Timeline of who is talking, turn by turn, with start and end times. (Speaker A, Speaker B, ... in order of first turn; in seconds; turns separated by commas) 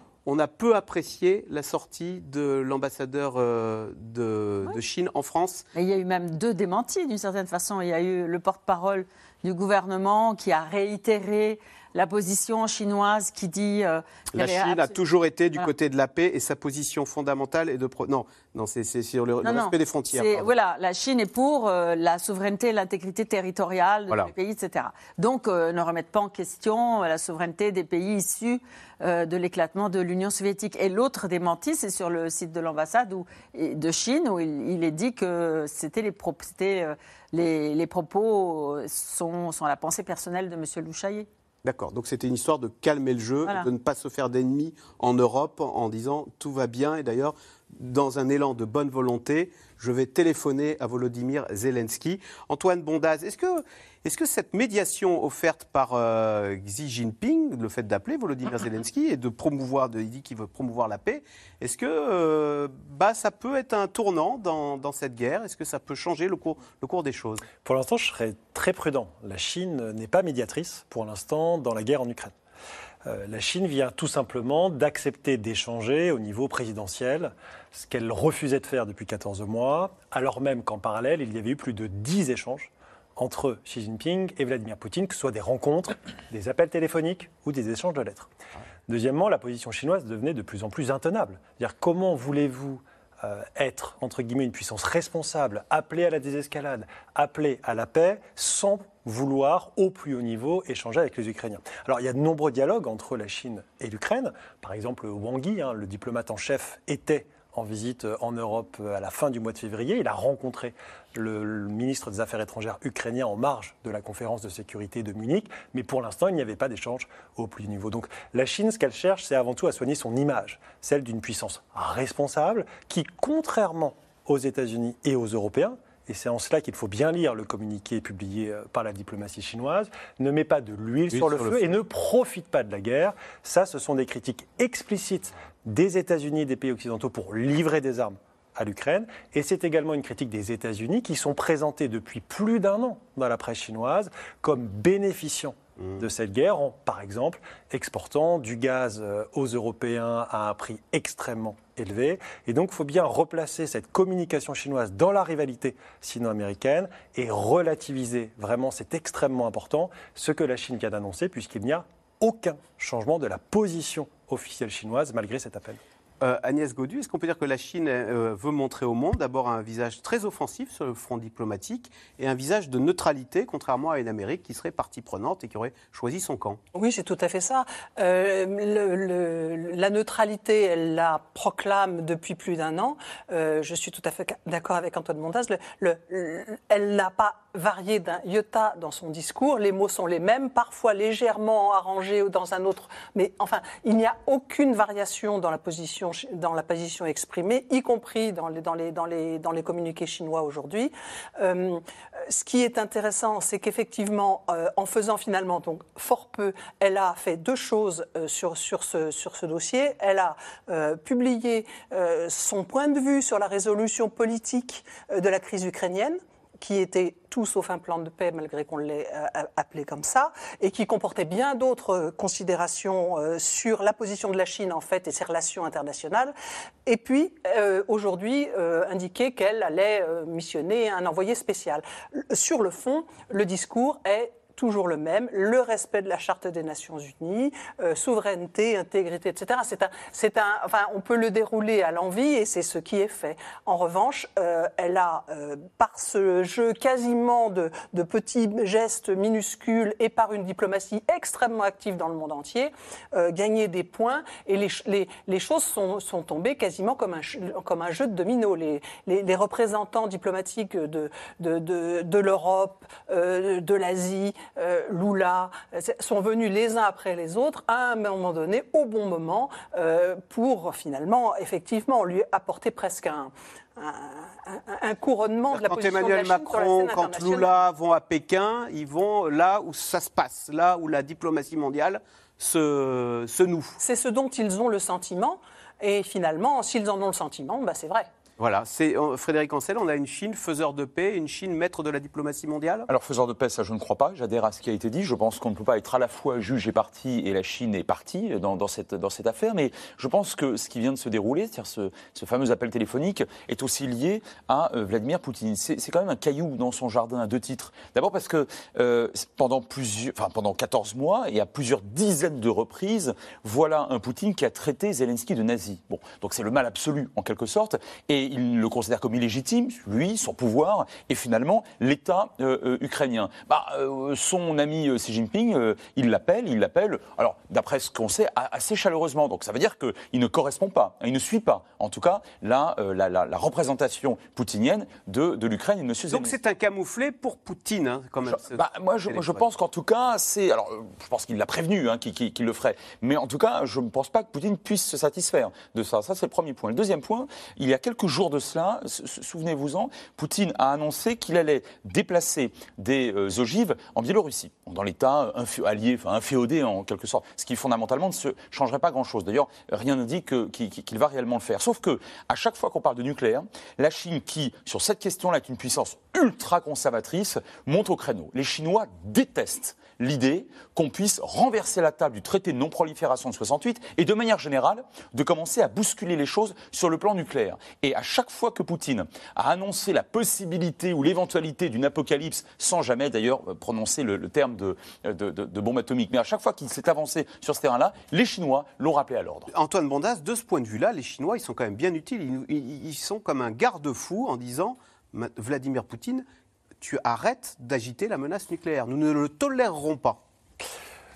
Speaker A: 0.2-5.7, Speaker B: 5.7-14.9, Speaker A: 14.3-20.5, Speaker B: 19.4-41.3, Speaker A: 41.6-67.5, Speaker C: 67.6-72.3, Speaker C: 73.0-88.3, Speaker C: 88.9-165.8, Speaker A: 131.1-131.8, Speaker A: 145.8-146.0, Speaker A: 166.2-176.6, Speaker D: 176.7-226.3, Speaker D: 226.8-277.5, Speaker A: 275.5-283.8, Speaker D: 283.8-288.1, Speaker A: 288.4-292.9, Speaker E: 292.9-336.3, Speaker A: 336.1-339.5, Speaker E: 338.3-389.5, Speaker A: 389.5-396.2, Speaker A: 396.8-400.2